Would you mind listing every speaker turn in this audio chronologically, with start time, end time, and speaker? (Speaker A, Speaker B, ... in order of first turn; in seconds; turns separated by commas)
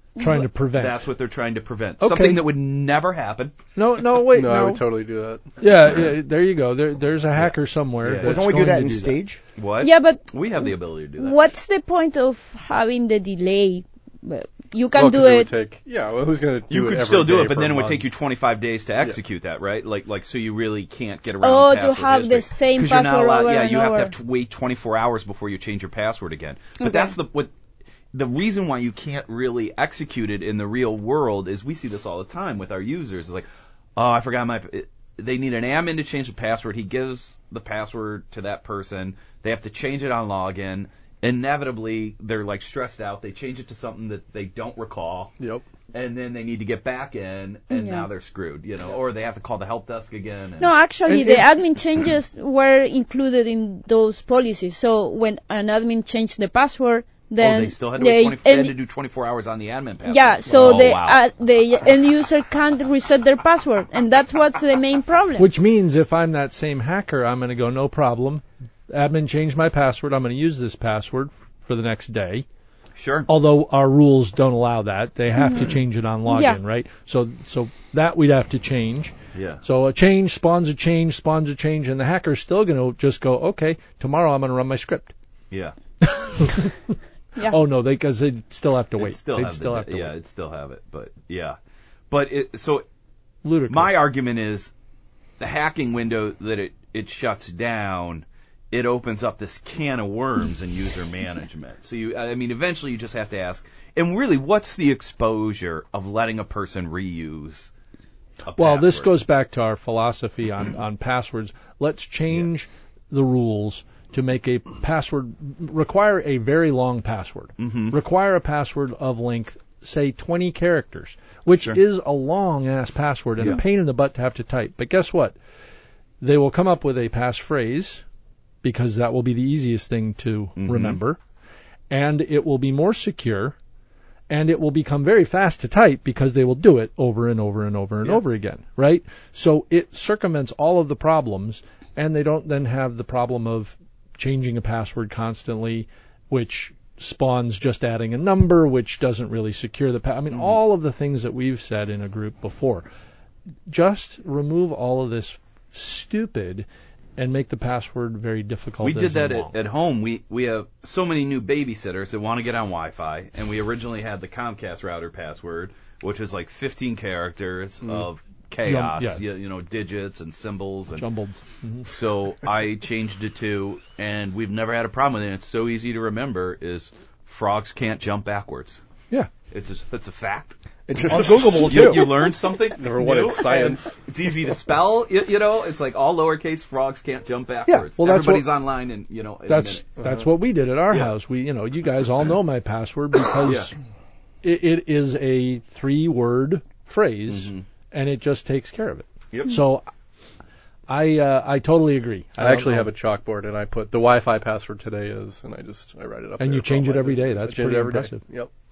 Speaker A: 0.2-0.4, Speaker B: 0.2-1.0, Speaker C: 0.7-3.5, Speaker B: 2.0-2.5, Speaker B: 3.8-4.8, Speaker D: 4.3-5.5, Speaker B: 5.6-9.2, Speaker C: 8.0-8.5, Speaker E: 8.2-9.4, Speaker C: 9.6-11.4, Speaker A: 9.8-15.5, Speaker D: 14.9-18.1, Speaker C: 16.7-27.5, Speaker A: 21.4-24.1, Speaker A: 26.8-27.1, Speaker C: 28.1-45.3, Speaker D: 45.4-45.7, Speaker C: 45.9-50.7, Speaker A: 47.7-48.1, Speaker A: 50.6-58.7, Speaker B: 51.1-51.5, Speaker C: 57.4-61.2, Speaker A: 60.0-65.5, Speaker D: 60.5-60.7, Speaker B: 65.4-72.5, Speaker C: 73.0-73.3, Speaker B: 73.3-85.1, Speaker A: 75.4-75.7, Speaker A: 76.3-76.6, Speaker C: 79.3-79.6, Speaker B: 86.0-86.7, Speaker B: 87.4-90.1, Speaker C: 89.0-91.6, Speaker C: 92.1-92.8, Speaker B: 93.4-94.0, Speaker C: 93.7-94.7, Speaker C: 95.4-107.7, Speaker C: 108.4-109.2, Speaker B: 108.6-125.4, Speaker C: 117.6-117.9, Speaker B: 126.2-128.0, Speaker B: 128.6-131.2, Speaker C: 130.6-131.0, Speaker B: 131.9-133.5, Speaker B: 134.3-152.9, Speaker B: 153.7-156.7, Speaker B: 157.2-159.6, Speaker C: 158.8-171.1, Speaker D: 167.8-168.1, Speaker B: 168.6-169.2, Speaker B: 170.9-171.9, Speaker C: 171.8-178.8, Speaker C: 179.5-180.6, Speaker E: 180.9-182.3, Speaker C: 181.1-190.0, Speaker D: 181.2-182.0, Speaker D: 182.7-183.9, Speaker B: 187.7-188.5, Speaker B: 189.5-193.7, Speaker C: 193.4-193.7, Speaker B: 194.4-199.9, Speaker C: 197.3-197.6, Speaker C: 199.3-199.6, Speaker B: 200.9-202.9, Speaker D: 202.4-208.5, Speaker B: 206.4-208.2